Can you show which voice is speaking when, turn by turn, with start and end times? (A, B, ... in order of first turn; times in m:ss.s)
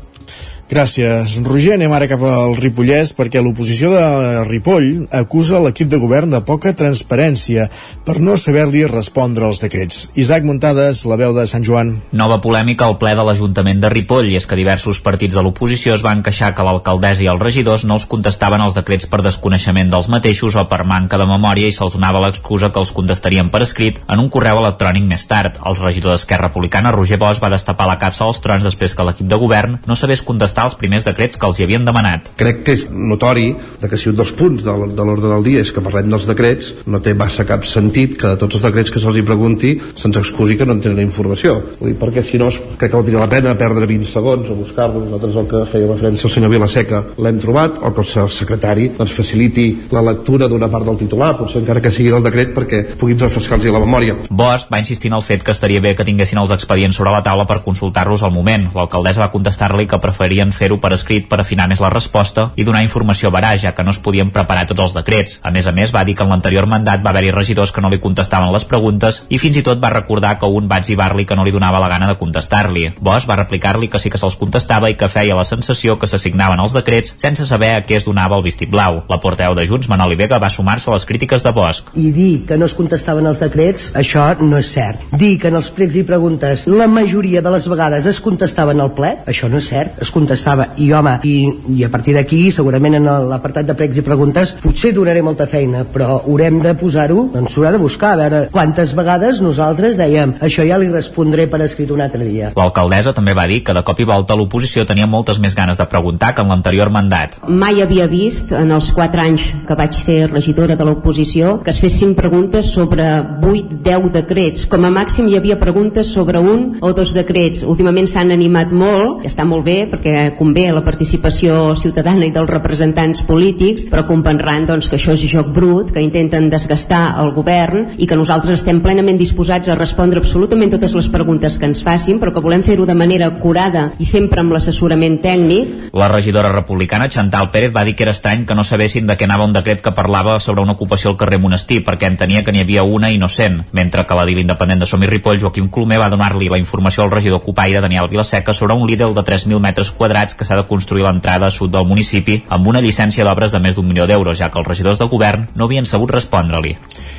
0:00.7-0:12.0 A
0:12.1-0:32.3 B
0:32.4-0:54.2 C
0:54.3-1:21.9 B
1:22.0-1:42.5 D
1:42.5-1:47.4 B
1:47.4-2:15.8 E
2:15.9-2:36.8 B